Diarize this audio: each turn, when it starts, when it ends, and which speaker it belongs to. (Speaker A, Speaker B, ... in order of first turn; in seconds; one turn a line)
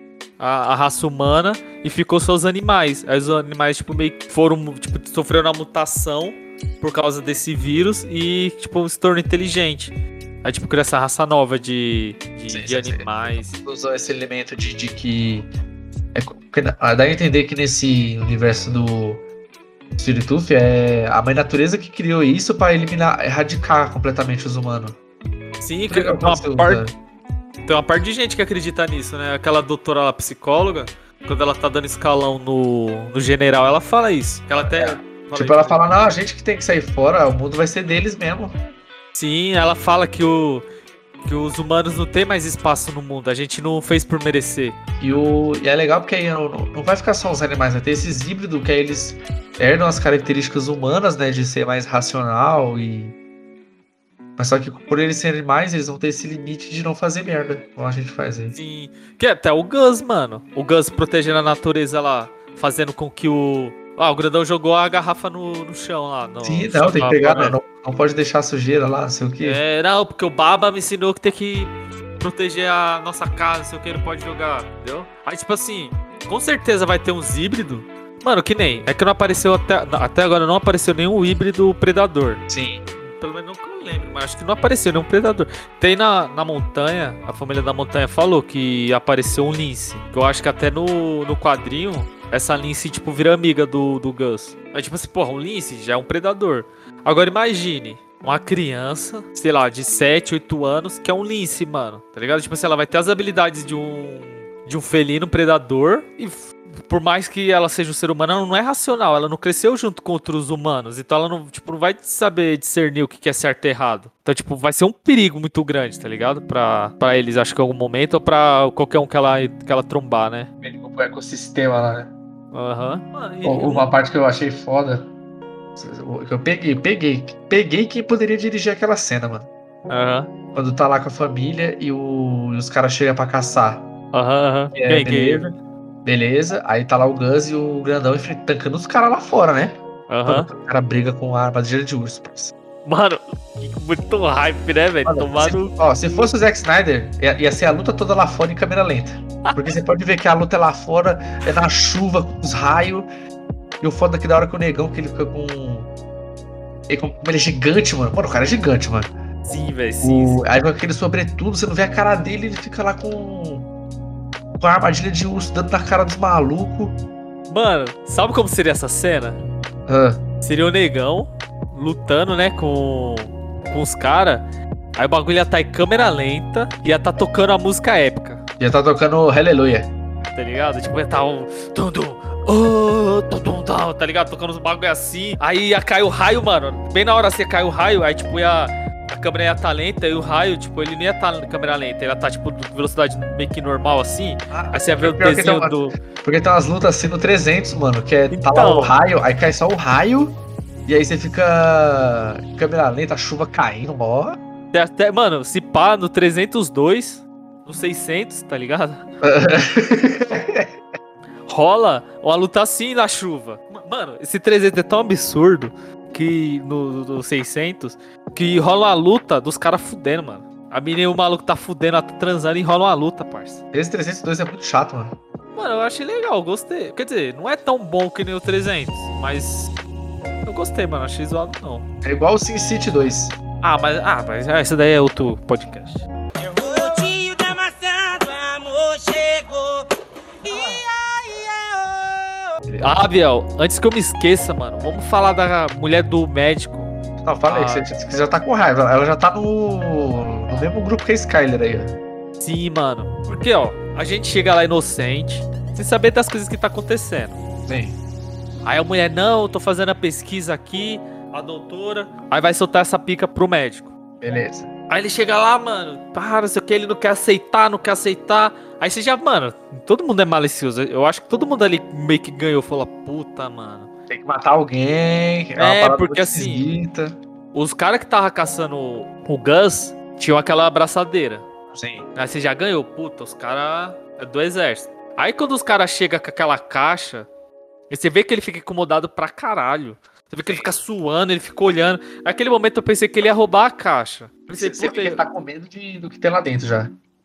Speaker A: 0.4-9.9
Speaker A: 10.4-13.6
Speaker B: 12.5-13.1
Speaker B: 13.6-15.5
Speaker B: 16.1-19.2
Speaker B: 20.0-24.9
Speaker A: 25.6-26.9
Speaker B: 25.9-26.9
Speaker A: 27.6-35.8
Speaker B: 34.6-38.5
Speaker A: 39.1-40.6
Speaker A: 41.2-44.8
Speaker B: 45.0-53.1
Speaker B: 54.4-58.5
Speaker A: 58.5-67.6
Speaker B: 66.4-69.6
Speaker A: 69.4-82.4
Speaker B: 82.5-82.8
Speaker A: 83.0-120.5
Speaker B: 120.6-122.1
Speaker A: 122.5-123.9
Speaker B: 123.4-125.1
Speaker B: 125.8-129.5
Speaker A: 129.9-130.3
Speaker B: 130.5-133.9
Speaker A: 134.1-135.5
Speaker B: 134.7-142.5
Speaker A: 140.1-140.5
Speaker A: 142.8-146.3
Speaker B: 145.1-153.1
Speaker B: 153.8-155.9
Speaker B: 156.9-159.1
Speaker A: 159.4-160.4
Speaker B: 160.0-163.7
Speaker B: 164.6-166.9
Speaker A: 167.5-169.4
Speaker B: 169.9-170.2
Speaker A: 170.4-174.4
Speaker A: 175.0-178.4
Speaker B: 178.6-179.9
Speaker A: 180.3-195.9
Speaker B: 194.5-204.4
Speaker A: 198.3-199.0
Speaker A: 204.7-209.0
Speaker B: 209.2-210.7
Speaker A: 211.5-223.6
Speaker B: 223.7-225.2
Speaker A: 225.5-229.7
Speaker A: 230.4-231.8
Speaker B: 232.0-233.4
Speaker A: 233.6-236.0
Speaker C: 236.4-239.8
Speaker C: 240.4-242.2
Speaker B: 242.7-243.0
Speaker A: 242.8-246.9
Speaker B: 247.2-251.9
Speaker A: 247.5-247.8
Speaker A: 252.4-257.4
Speaker B: 257.7-258.0
Speaker A: 258.6-263.9
Speaker B: 264.2-264.7
Speaker A: 264.9-273.9
Speaker B: 274.1-277.1
Speaker A: 275.6-276.7
Speaker A: 277.5-281.4
Speaker B: 281.7-282.1
Speaker A: 282.1-287.3
Speaker A: 287.9-295.2
Speaker B: 294.5-296.9